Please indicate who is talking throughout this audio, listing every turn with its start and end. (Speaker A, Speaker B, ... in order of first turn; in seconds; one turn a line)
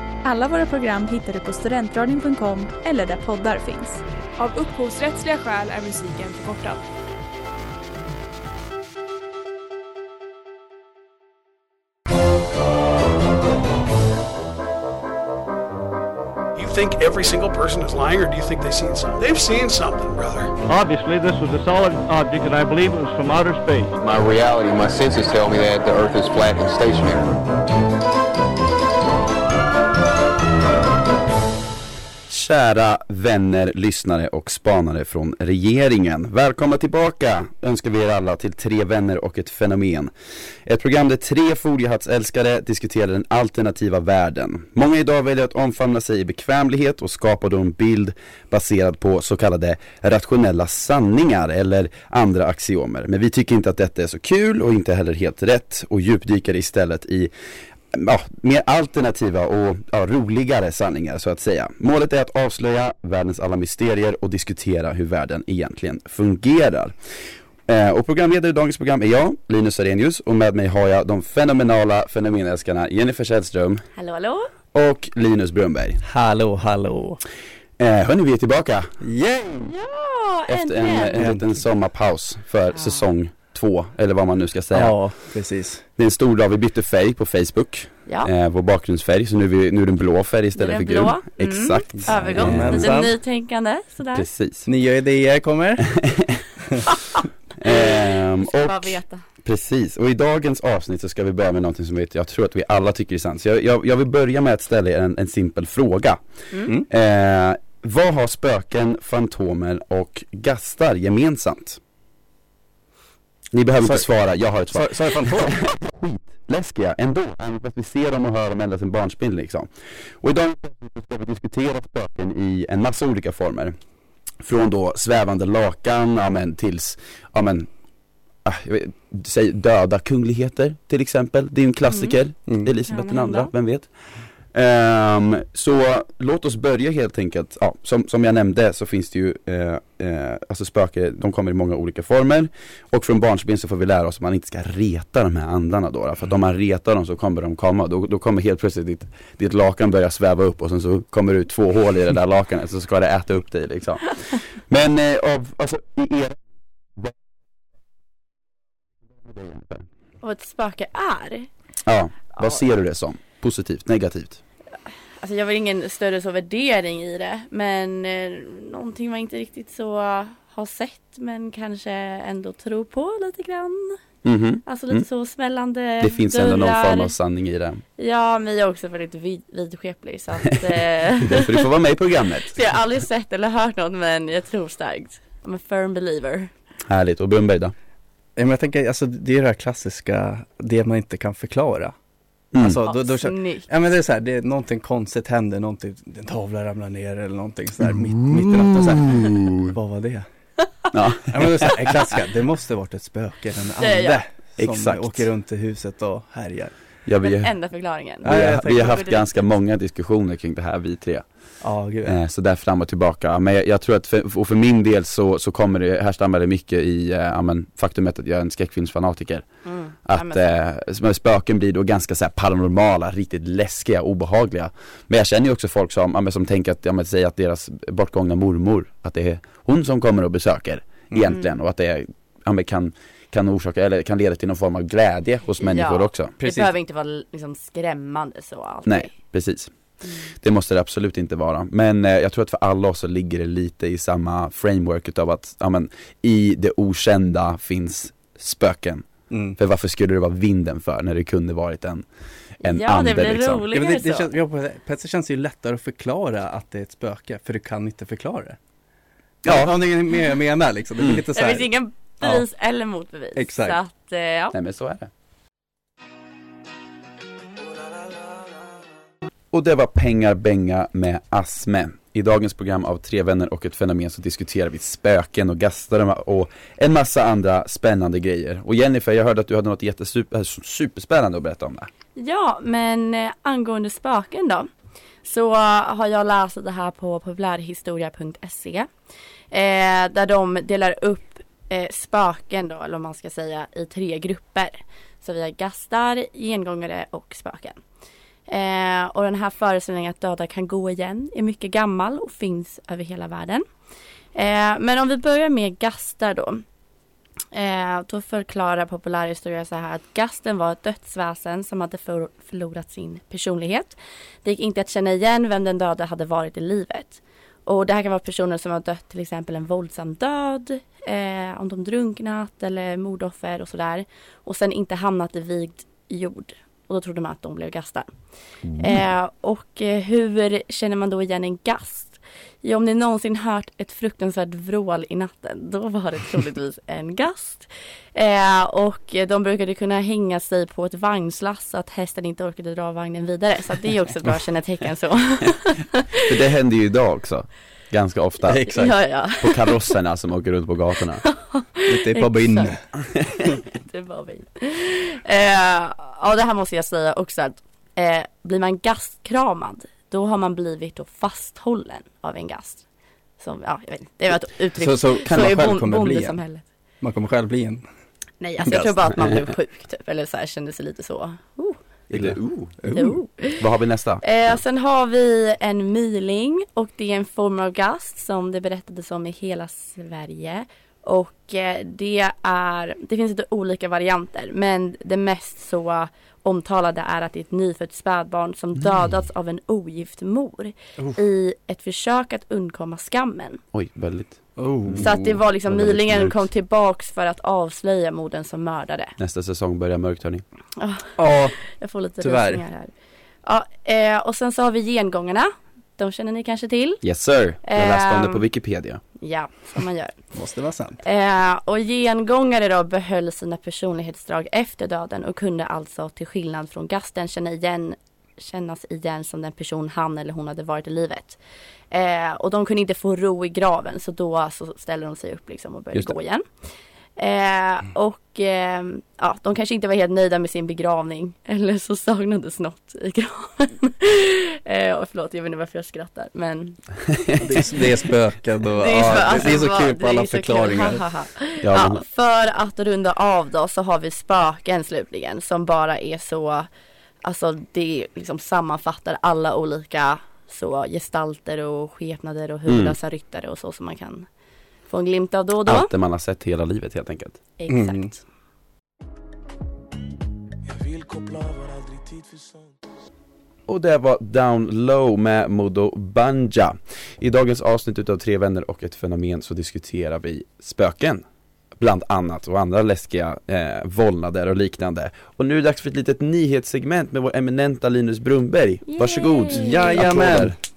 Speaker A: 0.2-4.0
Speaker B: 4.4-6.8
Speaker C: 16.6-20.5
Speaker D: 20.7-23.9
Speaker E: 24.0-27.4
Speaker F: 32.3-40.1
Speaker F: 40.6-57.3
Speaker F: 57.9-66.9
Speaker F: 67.7-73.8
Speaker G: 74.0-74.5
Speaker F: 74.7-76.0
Speaker H: 76.0-77.2
Speaker F: 77.8-78.9
Speaker H: 79.0-79.7
Speaker G: 79.7-81.2
Speaker F: 80.5-85.0
Speaker H: 81.2-81.6
Speaker G: 82.8-83.0
Speaker H: 84.7-85.8
Speaker F: 86.0-92.9
Speaker G: 90.6-94.2
Speaker H: 92.0-93.1
Speaker F: 94.1-94.7
Speaker H: 94.7-95.9
Speaker F: 95.8-96.4
Speaker G: 96.9-99.2
Speaker F: 97.6-106.2
Speaker F: 106.8-111.8
Speaker F: 113.5-119.7
Speaker H: 113.8-114.0
Speaker H: 114.7-115.5
Speaker F: 120.2-123.8
Speaker F: 124.4-127.7
Speaker F: 128.4-133.9
Speaker G: 131.9-132.2
Speaker G: 132.9-133.5
Speaker F: 134.5-156.4
Speaker F: 159.2-159.8
Speaker G: 160.2-161.5
Speaker F: 161.8-164.4
Speaker G: 165.2-174.0
Speaker F: 174.2-175.1
Speaker G: 174.6-177.1
Speaker F: 176.0-177.8
Speaker G: 178.0-181.7
Speaker F: 181.2-182.6
Speaker G: 182.5-186.5
Speaker F: 186.9-187.7
Speaker H: 188.3-191.9
Speaker F: 192.5-192.8
Speaker H: 192.6-200.2
Speaker G: 192.8-193.7
Speaker F: 198.3-199.7
Speaker F: 200.9-201.9
Speaker H: 201.3-206.7
Speaker G: 203.8-204.2
Speaker F: 204.6-205.3
Speaker F: 207.1-207.5
Speaker G: 207.2-209.2
Speaker F: 208.2-211.2
Speaker H: 208.2-209.0
Speaker H: 211.6-212.2
Speaker F: 212.0-219.4
Speaker G: 219.6-220.6
Speaker F: 220.0-236.3
Speaker H: 231.1-231.3
Speaker G: 235.6-239.1
Speaker H: 236.4-236.7
Speaker F: 238.8-239.7
Speaker G: 240.0-240.3
Speaker F: 240.4-249.1
Speaker H: 249.3-249.6
Speaker F: 249.6-252.0
Speaker F: 252.6-253.6
Speaker G: 252.6-254.3
Speaker H: 253.7-258.6
Speaker H: 259.4-261.7
Speaker F: 259.4-259.7
Speaker G: 261.3-264.5
Speaker H: 263.4-263.8
Speaker F: 264.5-265.1
Speaker F: 269.5-281.9
Speaker G: 282.1-284.7
Speaker G: 285.2-288.9
Speaker G: 289.5-297.8
Speaker G: 298.5-303.6
Speaker G: 304.3-306.6
Speaker G: 307.5-328.1
Speaker G: 328.8-346.3
Speaker F: 346.2-351.2
Speaker H: 348.4-348.9
Speaker G: 348.7-349.8
Speaker G: 351.2-352.7
Speaker H: 351.9-352.8
Speaker G: 353.7-362.8
Speaker G: 363.4-366.6
Speaker H: 364.8-366.4
Speaker F: 365.3-365.5
Speaker H: 367.0-367.8
Speaker G: 368.4-371.8
Speaker H: 368.6-368.9
Speaker F: 372.1-372.8
Speaker H: 372.1-373.2
Speaker G: 372.9-373.6
Speaker F: 373.6-374.2
Speaker G: 374.2-393.6
Speaker F: 393.7-395.1
Speaker H: 394.6-395.4
Speaker G: 395.0-399.1
Speaker F: 395.6-396.4
Speaker F: 399.2-400.4
Speaker G: 400.8-401.1
Speaker H: 401.2-401.6
Speaker G: 401.7-402.9
Speaker H: 402.2-402.6
Speaker G: 403.4-407.0
Speaker F: 407.0-409.0
Speaker G: 407.6-408.4
Speaker G: 409.2-410.2
Speaker H: 410.3-411.0
Speaker G: 411.0-421.4
Speaker G: 421.9-426.4
Speaker G: 427.2-436.8
Speaker H: 437.4-441.0
Speaker G: 438.8-446.7
Speaker F: 441.6-442.0
Speaker G: 447.2-454.3
Speaker F: 452.7-452.9
Speaker G: 454.9-455.9
Speaker F: 455.7-457.4
Speaker G: 457.6-458.2
Speaker H: 457.7-458.1
Speaker F: 463.7-471.2
Speaker F: 471.8-480.6
Speaker G: 478.9-480.1
Speaker H: 479.5-480.6